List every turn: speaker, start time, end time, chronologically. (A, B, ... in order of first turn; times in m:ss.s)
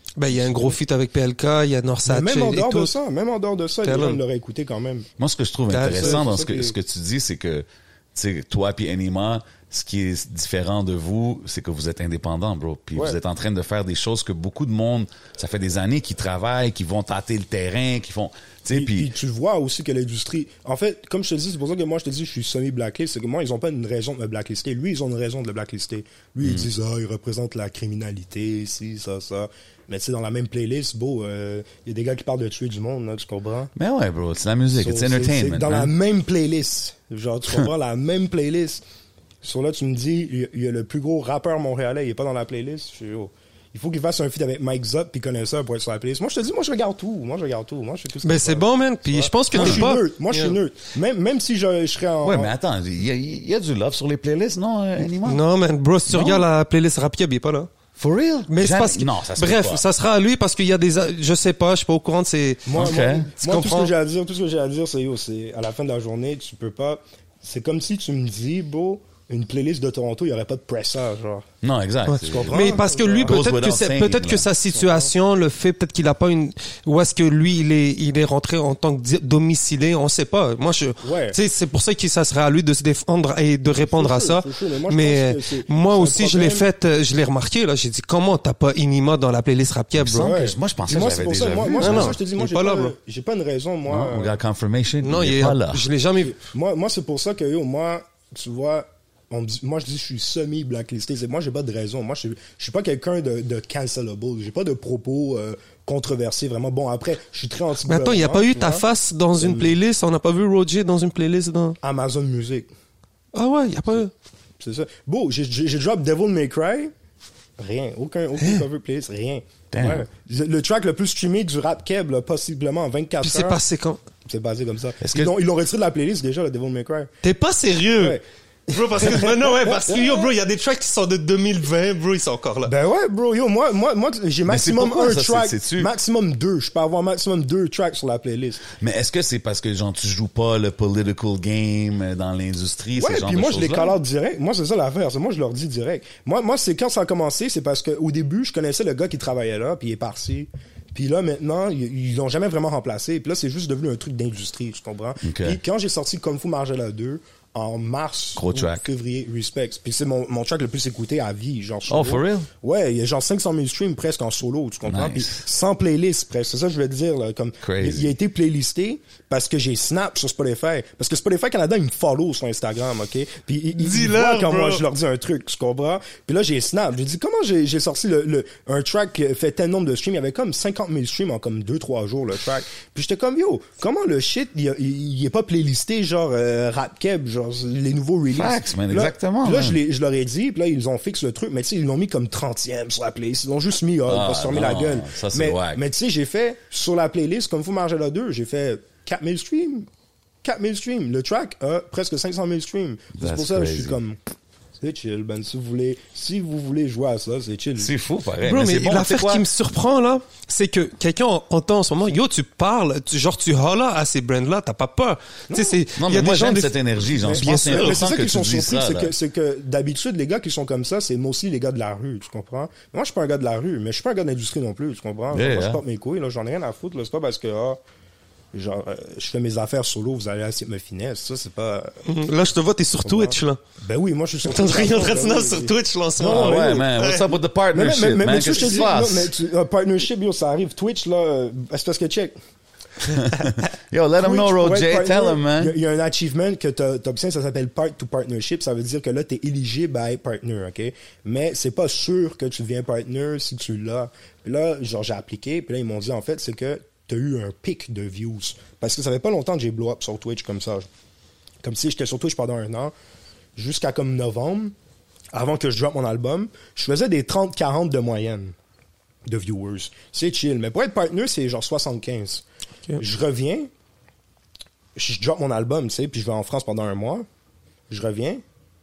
0:00.2-0:02.9 A
0:00.3-0:00.8 B
0:02.0-0:05.1 B
0:03.8-0:04.2 A
0:05.2-0:19.1 C
0:05.7-0:06.2 A
0:05.9-0:06.7 B
0:18.7-0:33.7 B
0:26.4-0:26.7 C
0:33.8-0:35.9 C
0:34.7-0:38.8 B
0:39.4-0:52.5 B
0:48.2-0:50.6 A
0:49.5-0:49.9 C
0:52.2-0:55.4 C
0:55.2-0:57.7 A
0:56.1-0:56.4 C
0:58.0-0:59.8 C
0:58.5-1:03.9 A
1:02.6-1:11.5 B
1:02.7-1:03.3 C
1:11.6-1:14.4 C
1:12.1-1:30.4 A
1:12.2-1:13.4 B
1:14.6-1:15.1 B
1:21.0-1:21.4 B
1:23.7-1:26.6 B
1:30.0-1:32.2 C
1:30.1-1:34.4 B
1:31.8-1:32.9 A
1:33.9-1:35.9 C
1:35.0-1:36.4 A
1:36.2-1:48.8 B
1:47.8-1:51.8 A
1:49.4-1:49.8 B
1:51.8-1:52.7 B
1:53.3-1:54.1 A
1:54.6-1:56.9 B
1:57.6-2:03.6 B
1:59.7-2:00.0 C
2:03.2-2:04.0 A
2:04.2-2:07.1 B
2:05.0-2:05.3 C
2:07.2-2:08.2 A
2:08.0-2:10.3 B
2:08.7-2:12.7 A
2:12.6-2:18.6 B
2:14.5-2:15.9 C
2:18.8-2:24.0 C
2:23.0-3:19.9 B
2:35.2-2:35.6 C
2:38.4-2:38.8 C
2:41.9-2:42.5 C
2:44.8-2:45.4 C
2:47.6-2:48.1 C
2:53.8-2:54.8 A
3:08.3-3:09.8 C
3:14.1-3:15.8 C
3:20.4-3:24.2 B
3:23.2-3:24.0 C
3:24.8-3:27.9 B
3:27.8-3:29.5 C
3:28.4-3:38.0 A
3:35.5-3:35.8 B
3:36.0-3:39.1 C
3:37.2-3:47.8 B
3:45.3-3:45.8 C
3:48.5-3:52.1 B
3:52.0-3:53.6 A
3:53.0-3:56.9 B
3:54.4-3:57.3 A
3:56.2-3:59.3 C
3:57.7-4:02.3 B
4:03.1-4:05.7 C
4:04.2-4:20.9 B
4:21.6-4:22.9 B
4:23.6-4:24.7 B
4:25.3-4:28.5 B
4:29.3-4:32.4 B
4:33.0-4:33.7 B
4:35.0-4:37.2 B
4:37.9-4:38.4 B